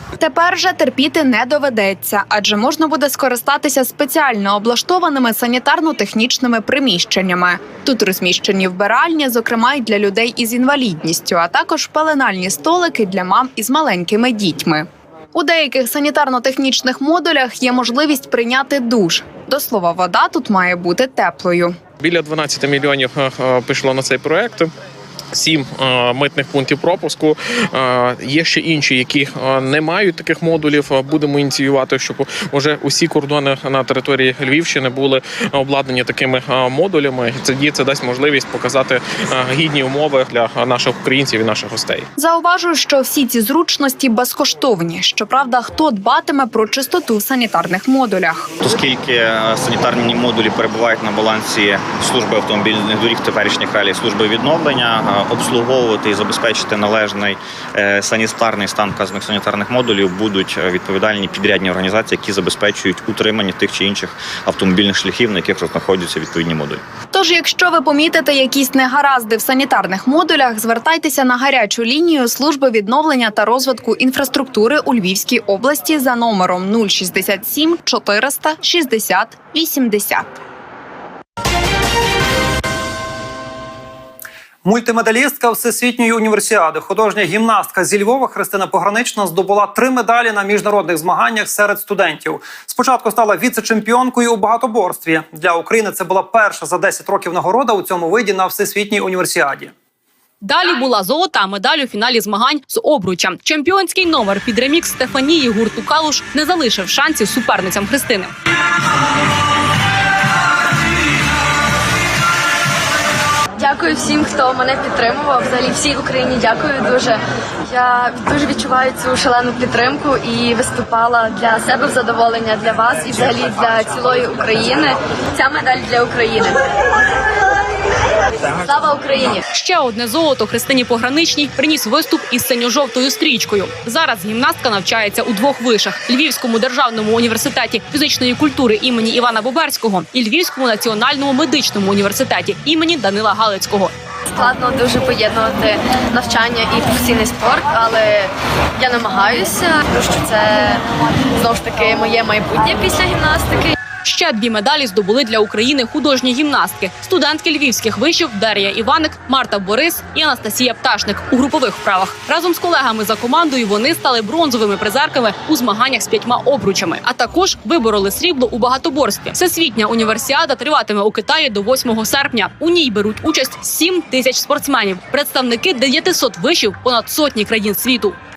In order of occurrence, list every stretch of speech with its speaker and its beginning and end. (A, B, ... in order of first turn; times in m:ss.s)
0:00.2-0:21.7 A
0:22.0-0:24.7 B
0:25.3-0:42.0 B
0:42.2-0:48.5 A
0:48.6-1:06.8 C
1:07.1-1:20.3 A
1:24.6-1:39.7 D
1:40.4-1:48.3 E
1:53.6-2:06.6 F
2:08.6-2:09.4 F
2:09.5-2:23.9 E
2:24.3-2:30.8 F
2:31.4-2:33.7 F
2:34.0-2:58.2 E